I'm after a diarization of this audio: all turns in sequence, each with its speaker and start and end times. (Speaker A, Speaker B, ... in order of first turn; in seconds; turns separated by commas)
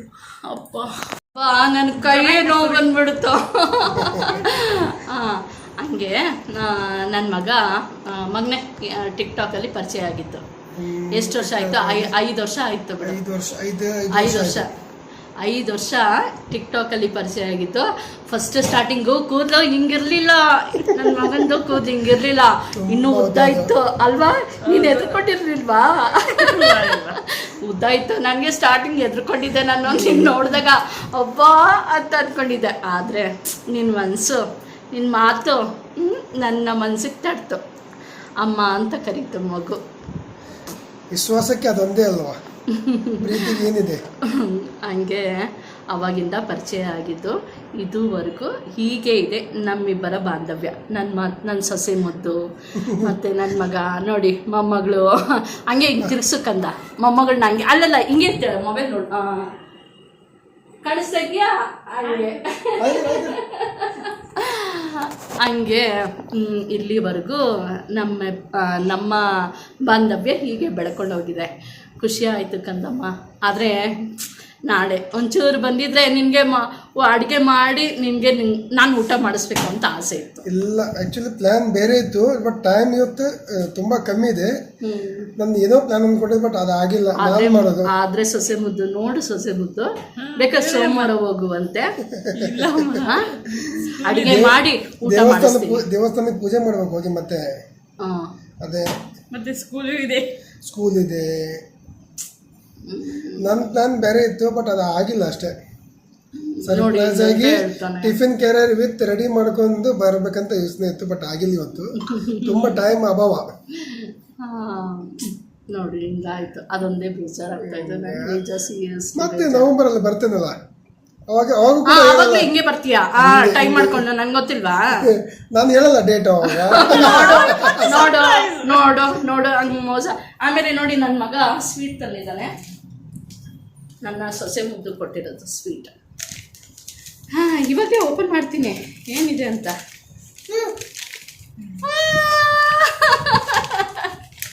Speaker A: 0.3-10.4, Speaker B: 2.0-2.9, Speaker C: 3.9-4.5, Speaker C: 10.8-12.2, Speaker A: 11.1-13.2, Speaker C: 13.0-14.6, Speaker A: 14.1-14.7, Speaker A: 15.4-37.6, Speaker C: 22.8-23.7, Speaker B: 24.6-25.1, Speaker B: 26.2-27.2, Speaker C: 29.9-30.5, Speaker A: 38.4-39.8, Speaker C: 41.1-42.4, Speaker A: 42.7-43.6, Speaker C: 43.2-44.1, Speaker A: 44.3-59.5, Speaker C: 52.8-53.1, Speaker A: 60.8-74.1, Speaker B: 62.1-62.4, Speaker C: 62.8-63.4, Speaker A: 74.7-80.4, Speaker C: 80.5-84.5, Speaker A: 84.8-85.3, Speaker C: 85.4-87.9, Speaker A: 87.2-91.9, Speaker B: 90.2-91.1, Speaker C: 92.1-92.6, Speaker B: 92.3-94.6, Speaker A: 93.0-95.8, Speaker C: 94.2-97.5, Speaker A: 98.0-98.3, Speaker C: 98.6-98.9, Speaker B: 99.3-100.4, Speaker C: 100.7-101.6, Speaker A: 102.8-103.5, Speaker C: 103.4-105.5, Speaker A: 106.3-108.2, Speaker C: 106.6-113.5, Speaker A: 112.0-112.8, Speaker A: 113.8-119.7, Speaker C: 117.6-118.4, Speaker C: 119.2-120.6, Speaker C: 121.3-122.5, Speaker A: 121.8-125.1, Speaker C: 123.2-124.0, Speaker C: 125.0-127.9, Speaker A: 126.5-132.5, Speaker B: 126.9-128.8, Speaker A: 134.0-135.9, Speaker A: 137.3-139.8, Speaker A: 141.8-144.1